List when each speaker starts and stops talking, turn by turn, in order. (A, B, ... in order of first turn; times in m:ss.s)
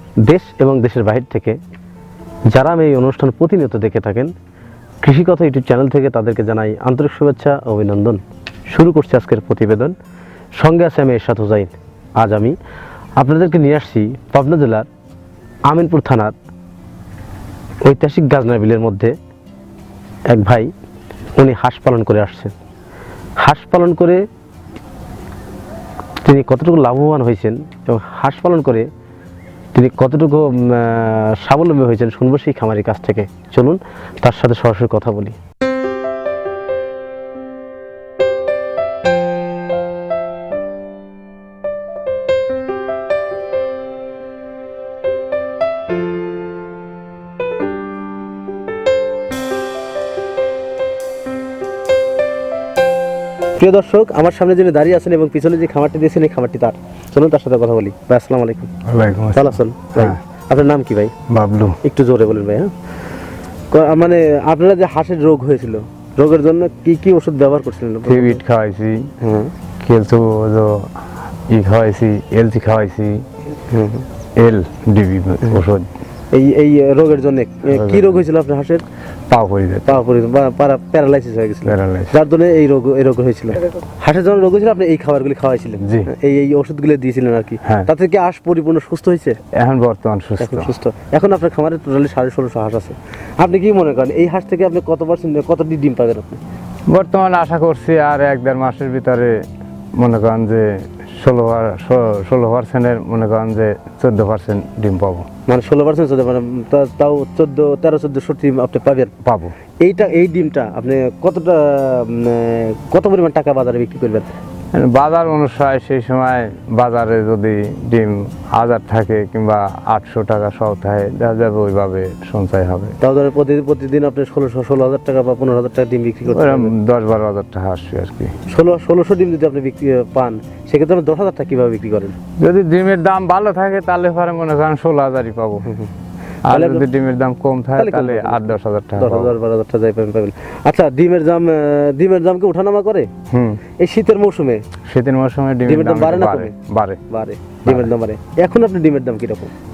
0:00.2-0:01.6 A
0:02.5-0:04.3 A
0:05.0-0:09.9 A
0:10.6-0:12.6 A
0:13.2-0:14.9 A
0:15.7-0:16.3 A
0:17.8-0:19.1 A
0:20.3-0:20.7 A
0:21.4-0:22.5 A
0:23.4-0:24.2 A
0:26.2-0:28.9 A
0:29.7-0:35.4 A
0:53.6-0:58.7 A
0:58.8-1:00.2 B
0:59.3-1:01.1 A
1:01.3-1:01.8 B
1:01.8-1:02.7 A
1:03.7-1:08.4 A
1:08.0-1:09.1 B
1:09.2-1:09.5 A
1:09.8-1:10.9 B
1:11.5-1:13.2 B
1:13.7-1:14.0 A
1:14.4-1:15.9 B
1:16.3-1:18.8 A
1:17.7-1:18.2 B
1:19.3-1:20.0 B
1:19.9-1:29.4 A
1:21.7-1:22.1 B
1:25.8-1:26.1 B
1:29.6-1:30.7 B
1:30.4-1:36.4 A
1:36.9-1:39.4 B
1:40.0-1:45.3 B
1:45.5-1:49.1 A
1:49.2-1:49.5 B
1:49.8-1:54.3 A
1:54.7-2:03.0 B
2:03.0-2:06.7 A
2:06.3-2:08.3 B
2:08.5-2:12.2 A
2:12.4-2:15.7 B
2:16.4-2:19.3 B
2:16.5-2:16.8 A
2:17.8-2:23.1 A
2:23.3-2:23.6 B
2:23.8-2:24.6 A
2:24.9-2:27.0 B
2:25.6-2:26.5 A
2:27.1-2:29.5 A
2:27.6-2:27.9 B